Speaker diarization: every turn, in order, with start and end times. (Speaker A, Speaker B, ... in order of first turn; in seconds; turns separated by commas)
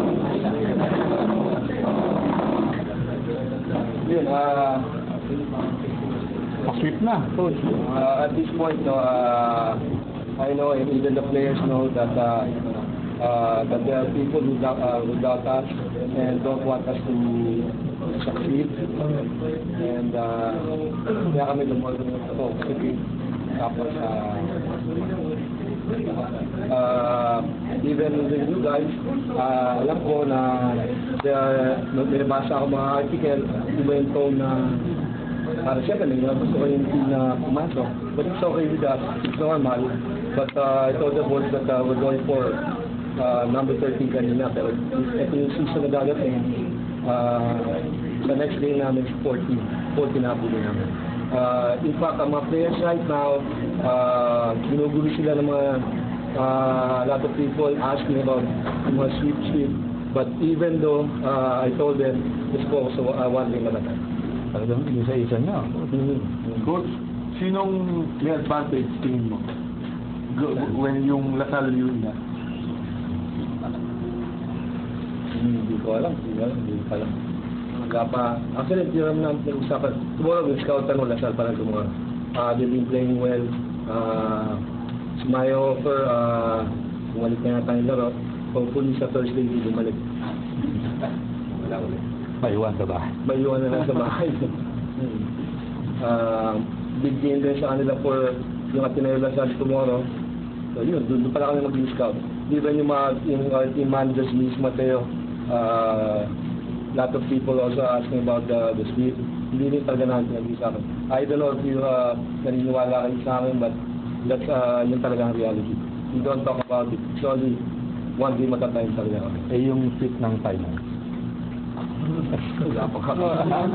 Speaker A: 4.0-4.9, Speaker B: 6.7-7.6, Speaker A: 7.8-9.8, Speaker A: 10.4-19.2, Speaker A: 19.8-20.8, Speaker A: 21.3-24.9, Speaker A: 26.7-34.9, Speaker A: 35.6-42.6, Speaker A: 43.1-64.0, Speaker B: 64.5-65.9, Speaker A: 65.9-66.7, Speaker C: 66.6-69.5, Speaker C: 70.3-72.2, Speaker A: 75.3-77.1, Speaker A: 77.7-84.6, Speaker A: 85.2-90.0, Speaker B: 92.4-93.1, Speaker A: 93.2-95.3, Speaker A: 96.0-100.1, Speaker A: 100.7-106.3, Speaker A: 106.9-117.6, Speaker A: 118.2-119.5, Speaker B: 119.5-120.8, Speaker A: 122.6-123.6